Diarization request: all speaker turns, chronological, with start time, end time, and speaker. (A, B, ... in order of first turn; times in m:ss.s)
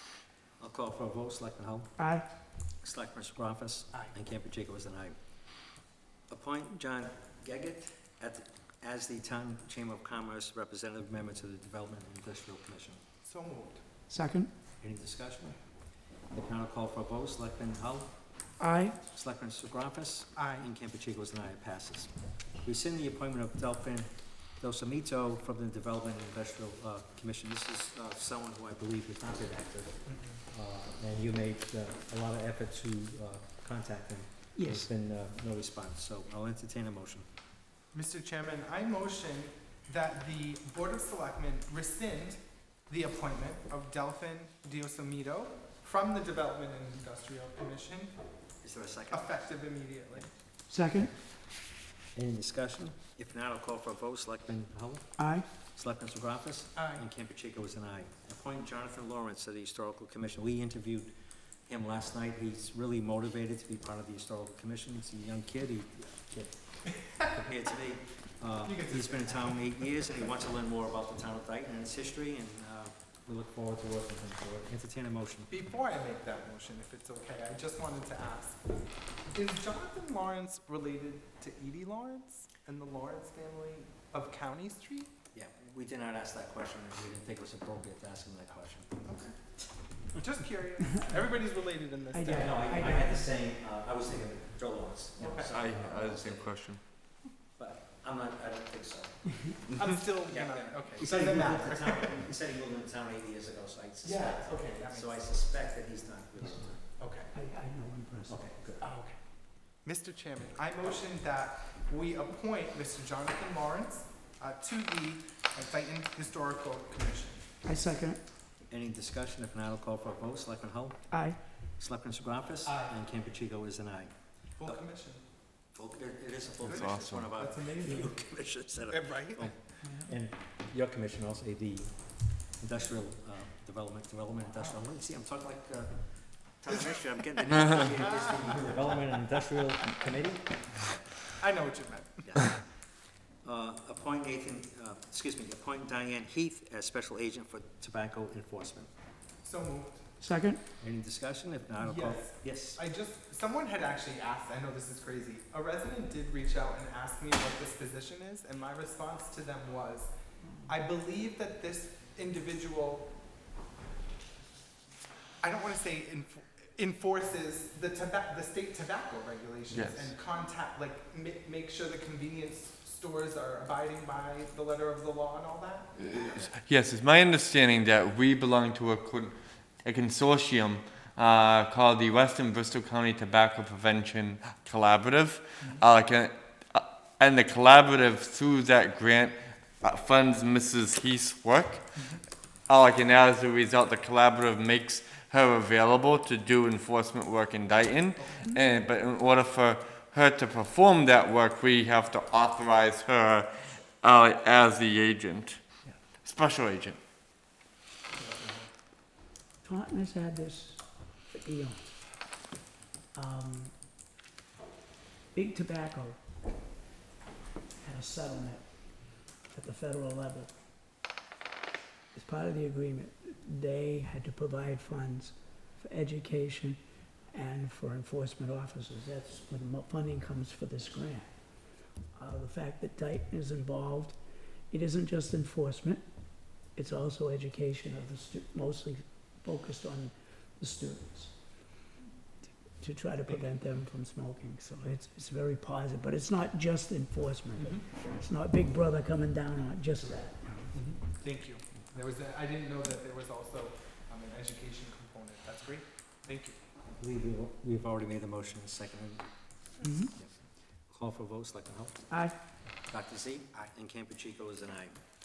0:00.6-0:05.2 A
0:02.0-0:02.3 B
0:06.3-0:13.0 A
0:13.2-0:13.8 C
0:14.1-0:14.5 B
0:14.8-0:15.6 A
0:16.3-0:18.5 A
0:18.6-0:19.0 B
0:19.1-0:22.1 A
0:20.4-0:20.7 C
0:22.6-0:37.3 A
0:30.1-0:30.4 C
0:34.6-0:34.9 B
0:37.9-0:48.2 C
0:48.6-0:49.3 A
0:49.1-0:50.3 C
0:50.7-0:51.1 B
0:52.1-1:01.1 A
0:55.2-0:55.5 B
0:56.8-0:57.0 C
1:01.6-1:15.5 A
1:08.6-1:09.6 C
1:15.5-1:18.7 C
1:19.3-1:25.1 C
1:25.3-1:29.2 A
1:29.1-1:29.4 C
1:30.1-1:32.6 C
1:32.1-1:33.2 B
1:32.3-1:36.9 A
1:35.2-1:35.6 C
1:35.5-1:36.8 D
1:37.6-1:46.8 A
1:39.8-1:42.2 C
1:44.0-1:45.1 C
1:47.0-1:47.3 C
1:47.3-1:48.4 B
1:48.3-1:48.9 A
1:48.8-1:49.2 C
1:49.8-1:57.5 C
1:57.6-1:58.2 B
1:58.7-2:04.8 A
2:01.1-2:01.4 B
2:02.7-2:02.9 C
2:04.6-2:05.2 C
2:05.6-2:21.3 A
2:06.6-2:07.3 D
2:06.6-2:08.1 C
2:08.9-2:09.7 C
2:21.4-2:22.4 C
2:22.2-2:22.8 A
2:23.4-2:28.9 A
2:29.4-2:30.2 C
2:30.2-2:30.6 B
2:30.8-2:32.8 A
2:31.8-2:40.1 C
2:40.7-2:43.1 C
2:45.4-2:56.5 C
2:49.7-2:50.1 D
2:56.0-3:27.0 D
3:18.2-3:18.5 C
3:28.1-3:28.7 C
3:29.6-3:32.0 B
3:33.1-3:33.8 B
3:35.3-3:36.2 B
3:37.8-3:40.5 B
3:42.1-4:01.7 B
4:02.7-4:10.8 B
4:07.6-4:07.9 C
4:10.7-4:16.6 C
4:17.0-4:19.3 A
4:19.8-4:20.1 B
4:20.9-4:22.1 A
4:22.1-4:22.4 B
4:22.8-4:25.0 A